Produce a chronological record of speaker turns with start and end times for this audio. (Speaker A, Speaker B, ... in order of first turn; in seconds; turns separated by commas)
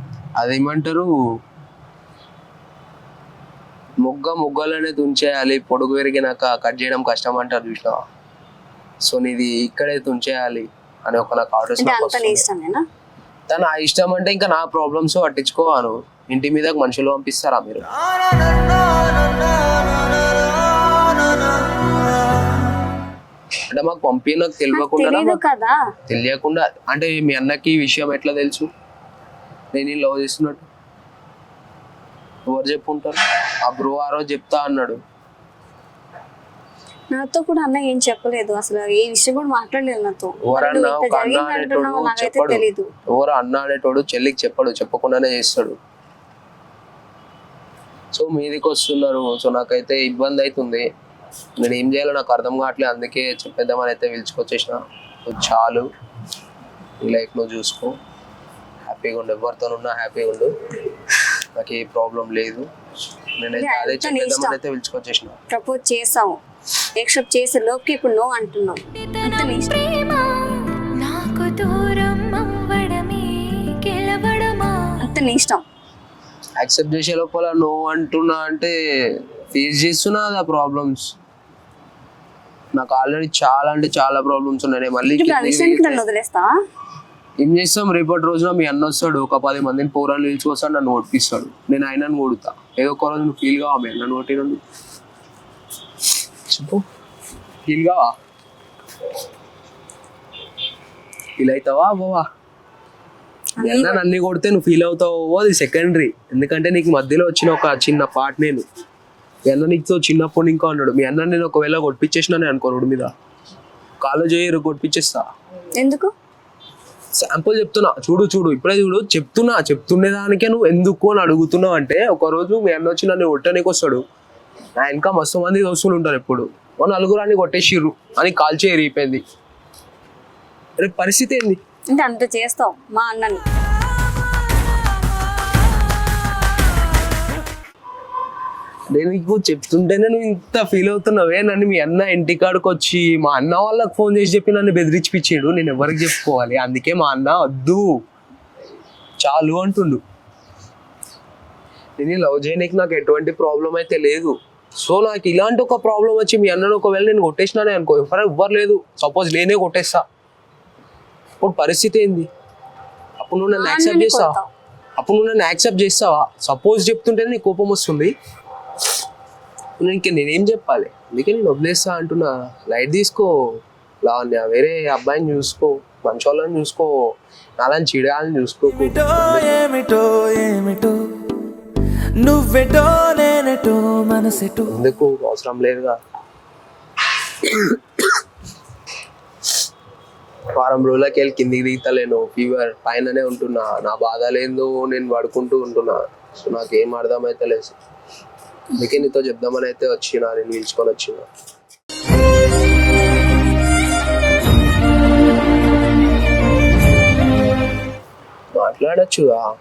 Speaker A: 0.4-1.1, Speaker A: 4.0-8.0, Speaker A: 9.1-12.4, Speaker B: 11.8-12.8, Speaker A: 13.5-17.9, Speaker A: 23.7-25.4, Speaker B: 24.7-25.8, Speaker A: 26.1-28.7, Speaker A: 29.7-30.6, Speaker A: 32.5-35.0, Speaker B: 37.1-42.9, Speaker A: 40.5-45.8, Speaker A: 48.1-50.9, Speaker A: 51.6-55.9, Speaker A: 57.0-58.0, Speaker A: 58.9-60.5, Speaker A: 61.5-62.7, Speaker A: 63.4-65.4, Speaker B: 63.5-64.6, Speaker B: 65.5-66.4, Speaker B: 67.0-70.0, Speaker C: 69.1-75.0, Speaker B: 75.0-75.6, Speaker A: 76.6-81.1, Speaker A: 82.8-86.0, Speaker B: 85.1-86.5, Speaker A: 87.4-94.6, Speaker A: 96.5-96.8, Speaker A: 97.7-98.1, Speaker A: 101.4-102.3, Speaker B: 103.6-104.0, Speaker A: 103.6-108.6, Speaker A: 109.5-113.1, Speaker A: 114.0-115.2, Speaker B: 115.8-116.1, Speaker A: 117.2-124.0, Speaker A: 124.8-129.2, Speaker A: 130.8-131.6, Speaker B: 131.9-133.4, Speaker A: 138.9-147.9, Speaker A: 149.2-150.0, Speaker A: 152.0-160.0, Speaker A: 161.4-162.3, Speaker A: 163.2-164.4, Speaker B: 163.5-164.5, Speaker A: 165.0-168.1, Speaker A: 169.8-173.3, Speaker A: 174.0-176.9, Speaker A: 177.6-179.7, Speaker D: 179.5-181.1, Speaker D: 182.2-184.7, Speaker A: 184.5-186.0, Speaker A: 187.4-188.0, Speaker A: 190.6-197.8, Speaker A: 198.8-201.3, Speaker A: 208.5-209.4